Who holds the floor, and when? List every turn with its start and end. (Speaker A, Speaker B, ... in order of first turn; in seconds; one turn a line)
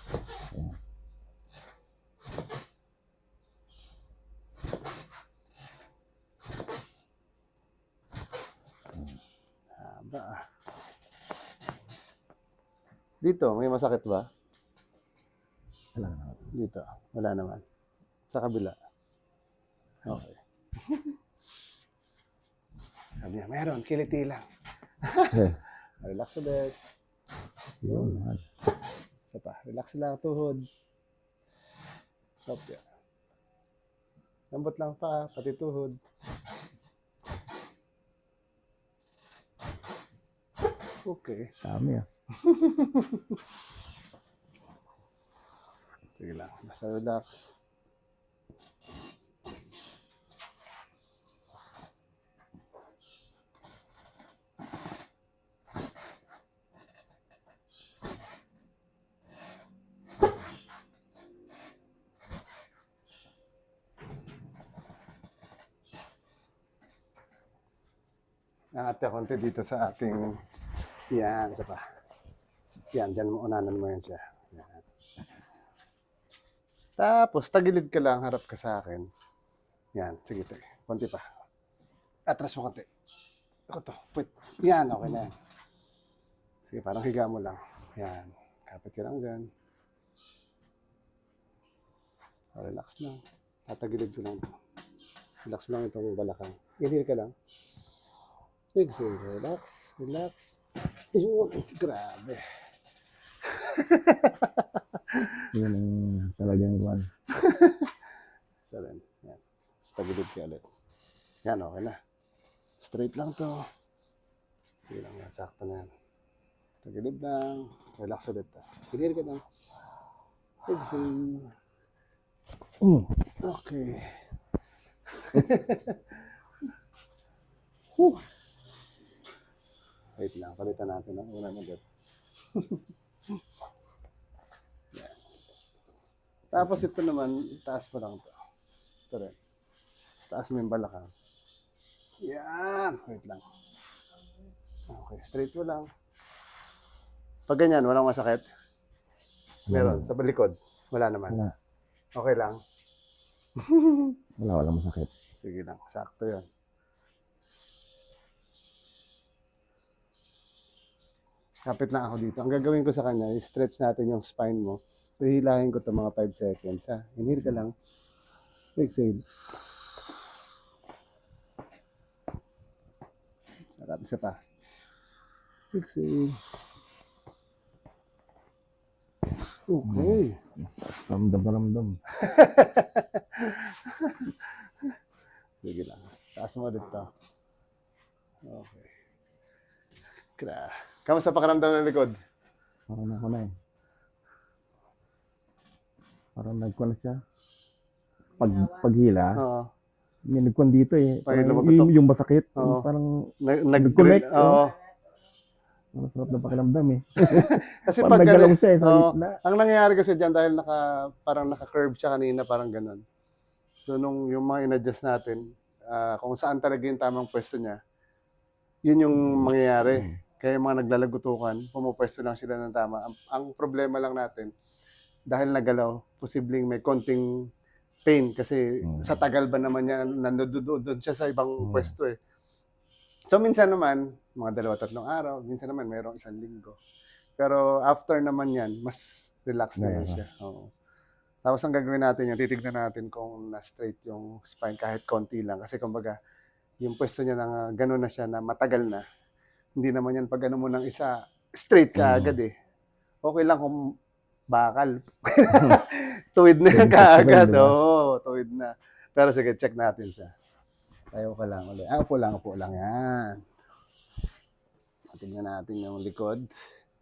Speaker A: 0.5-0.8
Speaker A: 8.9-9.2
Speaker B: 9.8-10.4
Speaker B: 13.2-14.3
Speaker A: 15.9-16.4
Speaker B: 16.5-17.6
Speaker B: 18.3-18.8
Speaker B: 20.1-21.2
Speaker B: 23.2-24.4
Speaker B: 25.0-26.8
Speaker A: 25.3-25.6
Speaker A: 27.8-28.4
Speaker B: 27.8-28.2
Speaker B: 29.3-30.7
Speaker B: 32.5-32.8
Speaker B: 34.5-36.0
Speaker B: 41.1-41.5
Speaker A: 41.6-42.1
Speaker B: 42.4-43.4
Speaker B: 46.2-47.5
Speaker B: 68.8-70.3
Speaker B: 71.1-71.8
Speaker B: 72.9-74.8
Speaker B: 77.0-79.1
Speaker B: 80.0-81.3
Speaker B: 82.3-82.9
Speaker B: 83.7-85.3
Speaker B: 86.7-89.5
Speaker B: 92.6-94.5
Speaker B: 95.5-97.3
Speaker B: 98.8-100.6
Speaker B: 101.1-102.4
Speaker B: 103.4-105.5
Speaker A: 105.5-107.1
Speaker B: 107.3-108.0
Speaker B: 108.7-110.7
Speaker B: 111.5-112.0
Speaker B: 112.8-113.7
Speaker B: 114.9-115.9
Speaker B: 116.8-119.4
Speaker B: 120.7-121.5
Speaker A: 122.8-123.1
Speaker B: 123.4-124.2
Speaker B: 125.1-126.3
Speaker A: 128.0-128.2
Speaker B: 130.2-131.8
Speaker B: 132.5-132.9
Speaker B: 136.5-138.3
Speaker B: 140.2-141.1
Speaker B: 142.2-143.4
Speaker B: 144.9-145.9
Speaker B: 147.5-148.5
Speaker A: 149.7-150.1
Speaker B: 149.7-151.4
Speaker B: 152.2-152.6
Speaker B: 153.6-154.2
Speaker A: 154.4-155.1
Speaker B: 155.4-156.5
Speaker B: 161.7-167.7
Speaker B: 168.8-169.3
Speaker B: 173.8-174.4
Speaker B: 175.7-176.4
Speaker B: 179.7-180.4
Speaker A: 179.8-182.0
Speaker B: 182.1-184.9
Speaker B: 185.6-187.1
Speaker B: 188.4-188.9
Speaker B: 190.4-192.2
Speaker A: 192.9-193.5
Speaker A: 196.4-197.2
Speaker A: 198.4-199.4
Speaker B: 199.4-199.7
Speaker A: 200.3-203.1
Speaker B: 201.3-201.9
Speaker B: 202.6-202.9
Speaker B: 203.4-204.8
Speaker A: 203.7-204.7
Speaker A: 205.9-209.4
Speaker B: 207.2-213.0
Speaker B: 213.8-217.8
Speaker B: 218.9-224.5
Speaker B: 225.3-227.3
Speaker B: 228.1-232.2
Speaker A: 228.8-229.2
Speaker A: 231.6-231.9
Speaker B: 233.3-236.8
Speaker B: 237.4-240.7
Speaker A: 239.8-240.2
Speaker B: 241.4-246.2
Speaker B: 246.8-249.0
Speaker B: 249.8-252.5
Speaker A: 252.0-252.4
Speaker B: 253.2-253.9
Speaker B: 254.5-260.3
Speaker A: 255.5-255.8
Speaker A: 256.7-257.8
Speaker B: 261.1-263.4
Speaker B: 265.1-266.5